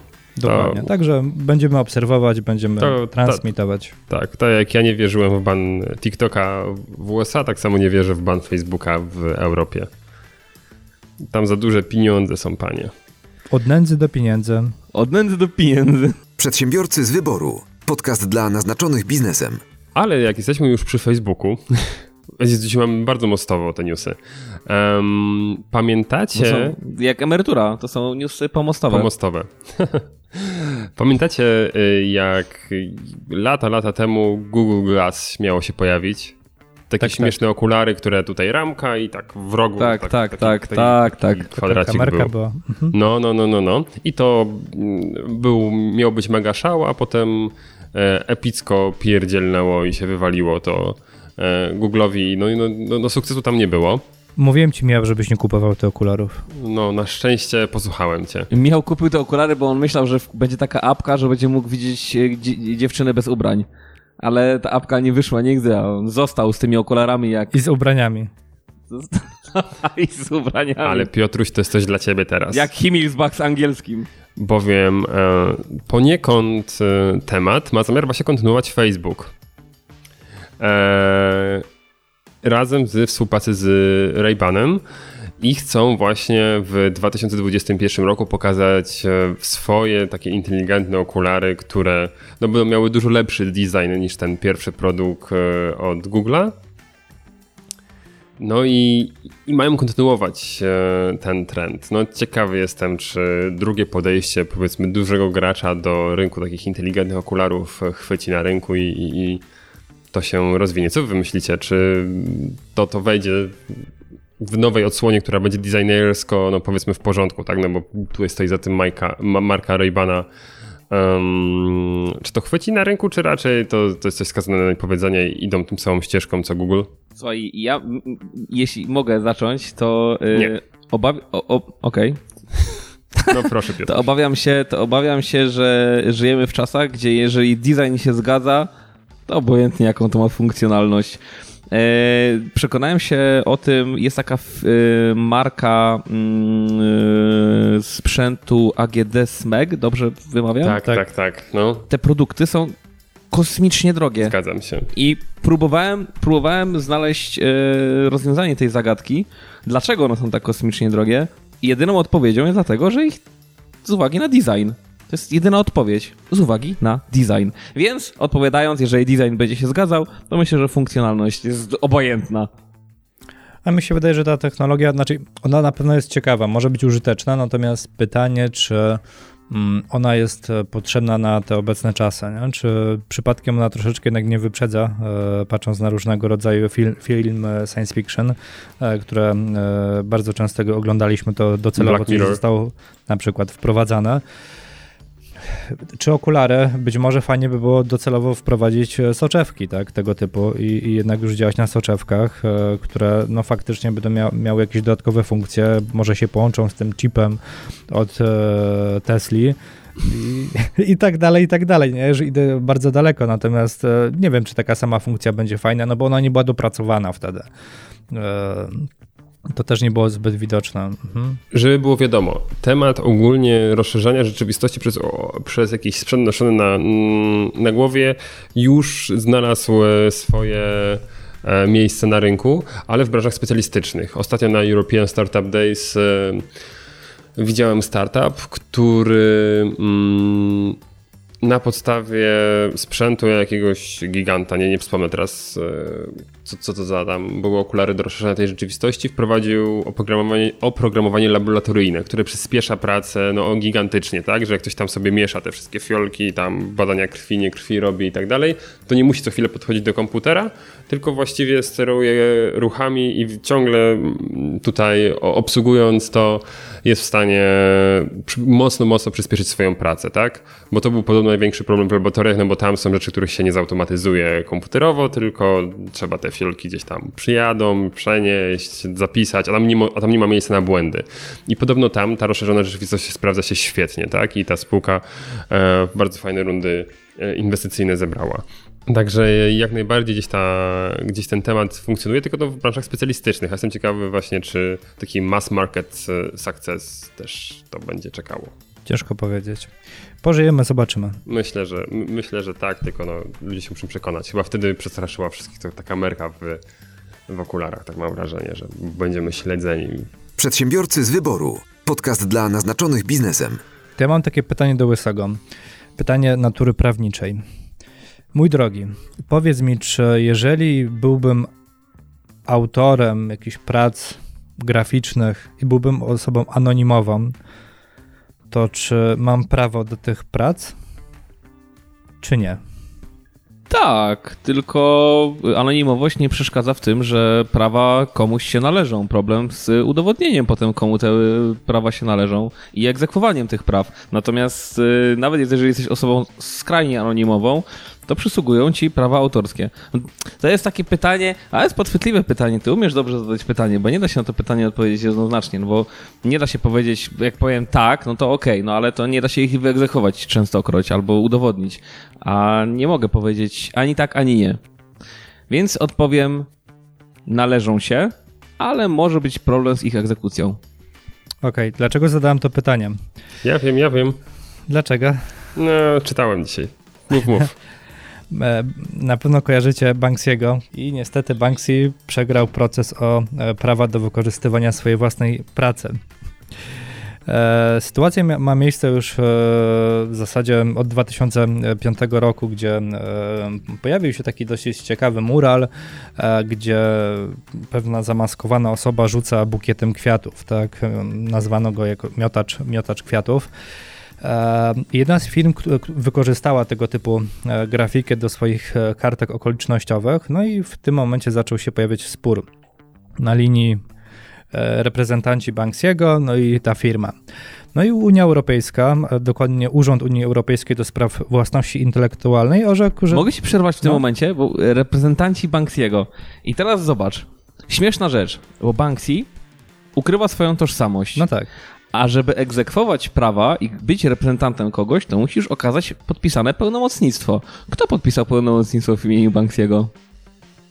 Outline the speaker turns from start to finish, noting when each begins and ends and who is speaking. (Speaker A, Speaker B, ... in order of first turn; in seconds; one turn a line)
Speaker A: 0.4-3.9
Speaker B: 0.5-0.9
Speaker B: 2.8-3.5
Speaker B: 4.1-9.9
Speaker B: 11.3-12.9
Speaker A: 13.5-14.7
Speaker C: 14.9-16.1
Speaker D: 16.4-19.6
Speaker B: 19.9-26.8
Speaker C: 26.3-29.1
Speaker B: 28.9-36.3
Speaker B: 36.9-42.3
Speaker A: 37.0-37.4
Speaker C: 39.8-41.5
Speaker A: 41.6-42.9
Speaker B: 42.9-54.0
Speaker A: 54.4-56.4
Speaker B: 56.5-58.5
Speaker C: 58.5-63.6
Speaker C: 64.2-67.5
Speaker A: 67.5-68.3
Speaker C: 68.9-71.1
Speaker B: 70.8-72.7
Speaker C: 72.5-74.1
Speaker B: 74.3-79.3
Speaker B: 80.6-81.6
Speaker B: 82.4-84.8
Speaker B: 85.4-96.5
Speaker B: 98.4-109.4
Speaker B: 110.1-113.8
Speaker B: 114.4-120.3
Speaker B: 120.9-126.9
Speaker C: 127.2-132.2
Speaker C: 133.2-138.7
Speaker B: 133.3-134.1
Speaker C: 139.3-141.2
Speaker C: 141.7-150.8
Speaker B: 150.6-151.8
Speaker C: 151.9-152.7
Speaker C: 153.3-154.3
Speaker B: 154.2-154.9
Speaker C: 154.9-163.2
Speaker C: 163.8-172.5
Speaker A: 173.6-194.2
Speaker B: 191.8-192.4
Speaker A: 195.5-217.5
Speaker A: 218.1-218.9
Speaker A: 219.5-221.4
Speaker B: 221.5-236.4
Speaker B: 237.4-240.8
Speaker B: 241.4-298.5
Speaker A: 298.9-299.7
Speaker A: 300.2-301.2
Speaker B: 301.2-306.6
Speaker B: 307.3-310.1
Speaker D: 310.4-313.6
Speaker A: 314.0-315.4
Speaker A: 316.0-317.4
Speaker A: 318.3-321.5
Speaker A: 322.4-327.3
Speaker A: 328.5-330.7
Speaker A: 332.2-332.6
Speaker C: 333.7-364.6
Speaker C: 365.5-366.5
Speaker C: 367.3-370.6
Speaker A: 371.4-373.0
Speaker B: 373.4-374.2
Speaker A: 374.7-375.3
Speaker B: 375.6-377.5
Speaker A: 378.3-386.0
Speaker A: 387.2-403.5
Speaker A: 404.2-412.4
Speaker A: 413.2-413.8
Speaker A: 414.5-417.1
Speaker A: 417.7-423.3
Speaker C: 423.1-429.3
Speaker C: 429.9-431.3
Speaker A: 431.1-431.5
Speaker C: 431.9-439.9